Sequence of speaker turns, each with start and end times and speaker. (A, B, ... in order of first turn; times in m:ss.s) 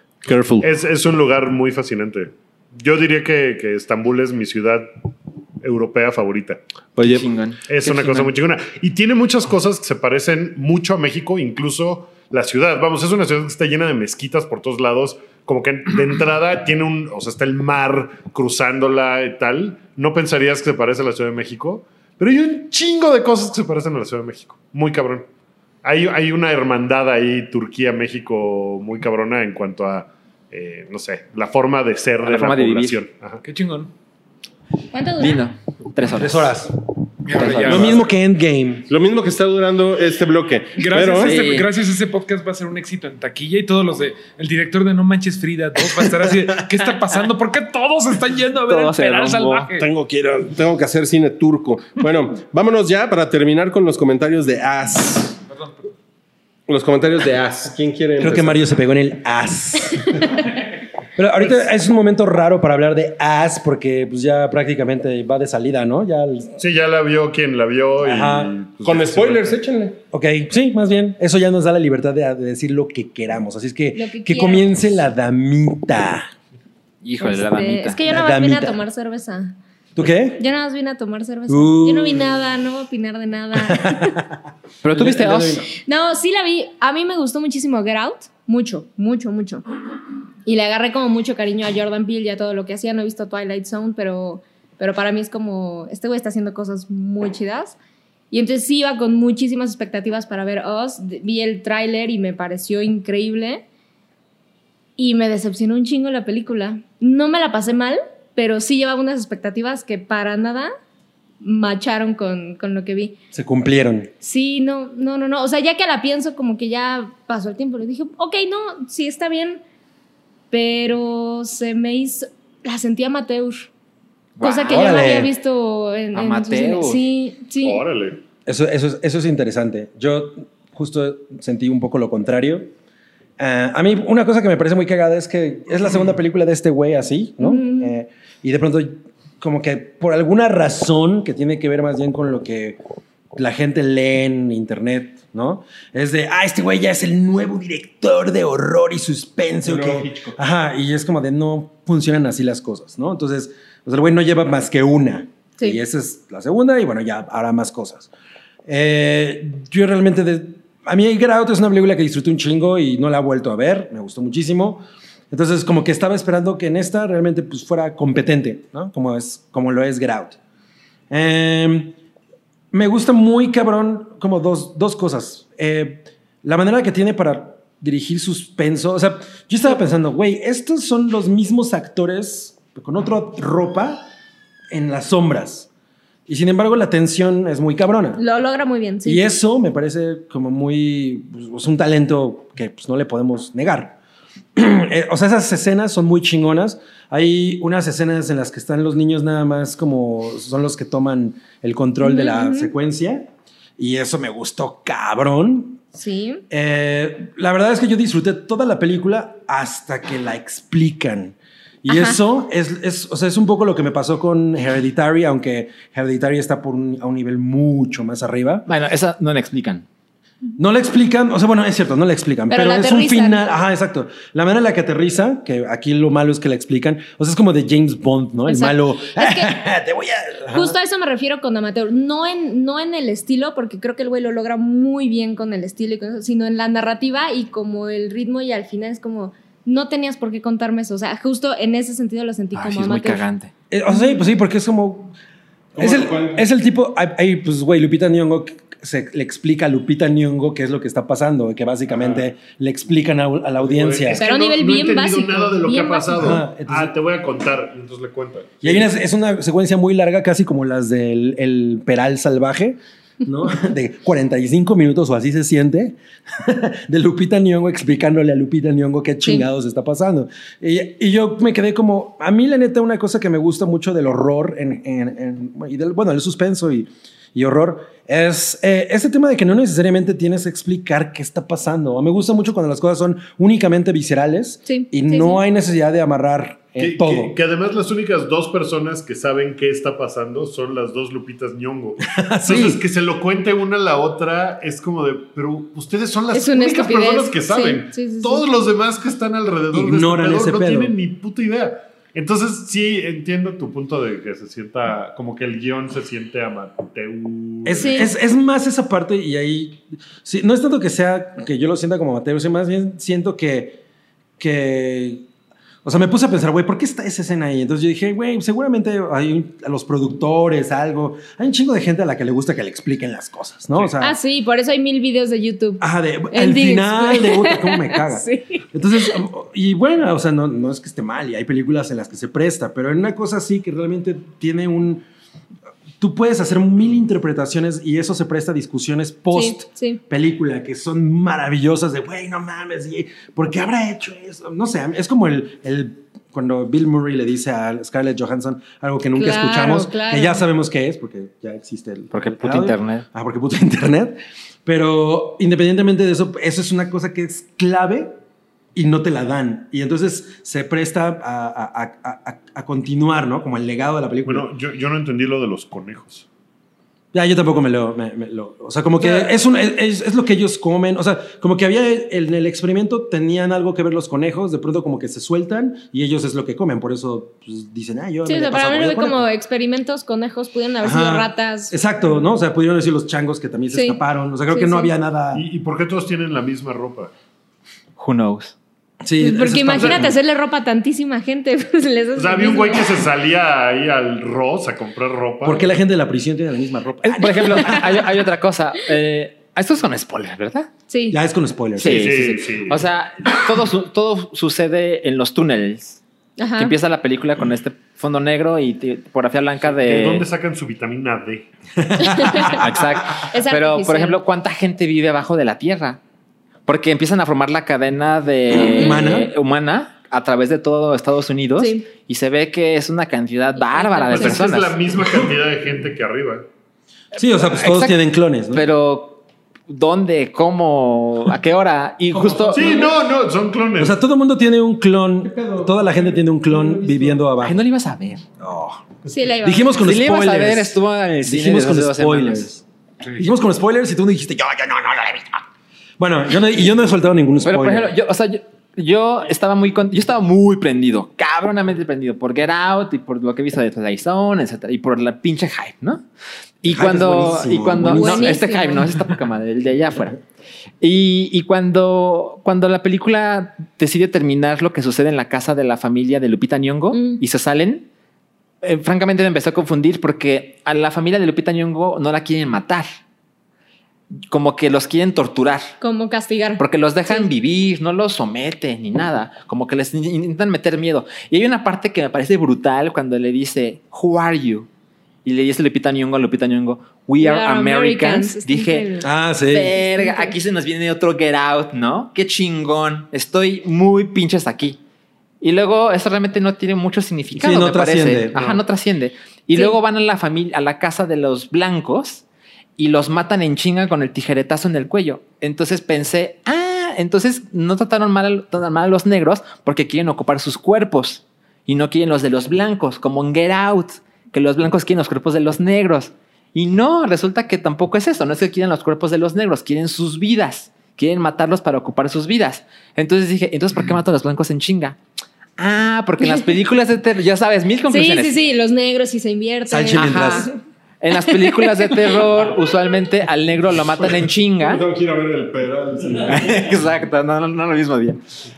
0:00.2-0:00.7 A
0:00.6-0:04.9 B
0:05.6-0:06.6 B
0:07.0-0:07.2 A
0:07.0-0:08.3 C
0:07.7-0:25.3 B
0:25.8-0:33.4 B
0:32.2-0:33.0 C
0:33.4-0:33.9 D
0:34.9-0:35.4 E
0:35.2-0:36.5 C
0:36.1-0:36.7 F
0:37.2-0:38.0 D
0:37.3-0:38.0 C
0:37.4-0:38.9 F
0:38.9-0:41.4 A
0:40.8-0:49.9 D
0:41.2-0:41.7 C
0:48.7-0:49.7 C
0:49.8-0:55.4 A
0:55.5-0:55.8 D
0:56.7-0:58.6 A
0:58.2-1:00.5 F
1:01.2-1:06.5 F
1:06.6-1:09.6 B
1:08.0-1:08.6 F
1:08.8-1:10.0 A
1:10.1-1:16.3 F
1:13.9-1:14.8 E
1:17.0-1:18.0 C
1:17.2-1:19.6 E
1:18.0-1:18.8 F
1:20.0-1:20.4 F
1:20.4-1:24.2 E
1:21.5-1:22.3 F
1:23.6-1:24.4 F
1:24.8-1:25.6 C
1:24.9-1:25.7 F
1:25.7-1:29.6 E
1:30.4-1:37.8 E
1:38.3-1:43.6 E
1:45.0-1:50.7 E
1:51.4-1:53.2 E
1:53.3-1:54.1 F
1:54.2-1:59.6 E
2:00.5-2:03.7 E
2:04.4-2:05.2 C
2:04.4-2:07.8 E
2:04.7-2:05.3 F
2:06.1-2:07.0 C
2:07.6-2:08.2 B
2:08.4-2:12.7 F
2:13.4-2:22.8 F
2:17.4-2:17.9 E
2:23.4-2:38.1 F
2:29.6-2:30.4 A
2:38.6-2:50.4 F
2:51.1-2:52.0 F
2:52.7-3:04.0 F
3:04.7-3:05.7 F
3:06.3-3:08.2 F
3:08.2-3:09.3 E
3:09.0-3:14.0 F
3:14.6-3:25.8 F
3:22.0-3:22.7 E
3:25.9-3:26.4 E
3:26.5-3:38.7 F
3:31.9-3:32.2 E
3:38.6-3:39.8 C
3:40.6-3:50.7 F
3:42.5-3:43.4 E
3:48.4-3:49.5 E
3:50.5-4:03.3 E
4:02.5-4:03.5 C
4:03.7-4:05.1 F
4:03.9-4:04.2 E
4:05.8-4:06.5 A
4:05.8-4:14.2 F
4:13.6-4:18.9 B
4:14.1-4:16.4 E
4:16.1-4:16.9 F
4:18.6-4:47.3 F
4:44.6-4:45.4 E
4:46.8-5:08.1 B
4:52.0-4:52.8 F
4:56.3-4:58.4 E
4:59.7-5:00.9 F
5:07.6-5:13.8 F
5:07.7-5:08.1 E
5:14.4-5:15.2 F
5:15.8-5:24.2 F
5:24.0-5:29.1 E
5:25.8-5:35.0 F
5:36.0-5:58.1 F
5:39.3-5:40.0 E
5:49.2-5:50.5 E
5:52.1-5:53.0 C
5:58.7-6:04.5 F
6:04.2-6:06.2 B
6:07.1-6:19.2 F
6:18.2-6:21.7 E
6:20.8-6:25.4 F
6:23.7-6:24.9 E
6:25.3-6:27.1 B
6:28.0-6:28.6 C
6:29.0-6:30.2 F
6:29.2-6:32.9 E
6:29.8-6:30.0 B
6:32.2-6:35.7 B
6:35.4-6:38.0 F
6:37.0-6:40.7 C
6:40.9-6:41.2 E
6:41.1-6:42.2 F
6:41.8-6:46.0 C
6:41.8-6:42.8 B
6:46.4-6:46.7 E
6:46.6-6:50.2 C
6:49.8-6:51.5 B
6:51.8-6:52.5 F
6:52.0-6:54.2 E
6:52.3-6:56.0 C
6:56.7-7:04.8 C
6:58.6-6:59.3 F
6:58.8-6:59.2 E
7:01.6-7:01.9 E
7:03.6-7:04.5 E
7:04.1-7:06.4 B
7:07.2-7:08.6 F
7:07.2-7:12.8 C
7:12.1-7:12.9 A
7:12.5-7:14.0 B
7:13.8-7:17.6 F
7:15.2-7:17.3 A
7:17.4-7:18.2 C
7:18.4-7:22.6 F
7:19.1-7:19.7 E
7:19.8-7:22.6 C
7:23.1-7:25.4 F
7:26.0-7:27.9 F
7:27.4-7:36.0 C
7:36.6-7:40.2 C
7:36.6-7:38.4 F
7:37.8-7:38.8 E
7:40.8-7:47.9 C
7:46.9-7:47.2 E
7:48.6-7:52.9 C
7:54.3-7:55.7 C
7:55.8-7:57.3 E
7:56.6-8:04.7 C
8:05.2-8:08.9 C
8:07.2-8:09.1 E
8:09.0-8:09.8 F
8:09.5-8:14.8 C
8:09.9-8:10.3 E
8:15.4-8:22.2 C
8:17.3-8:18.6 F
8:22.8-8:45.0 C
8:45.6-8:48.4 C
8:46.2-8:46.5 E
8:47.9-8:50.6 E
8:49.7-8:50.5 F
8:50.0-8:50.5 C
8:51.0-8:54.8 C
8:51.3-8:52.2 E
8:54.0-8:56.6 A
8:56.2-8:58.2 C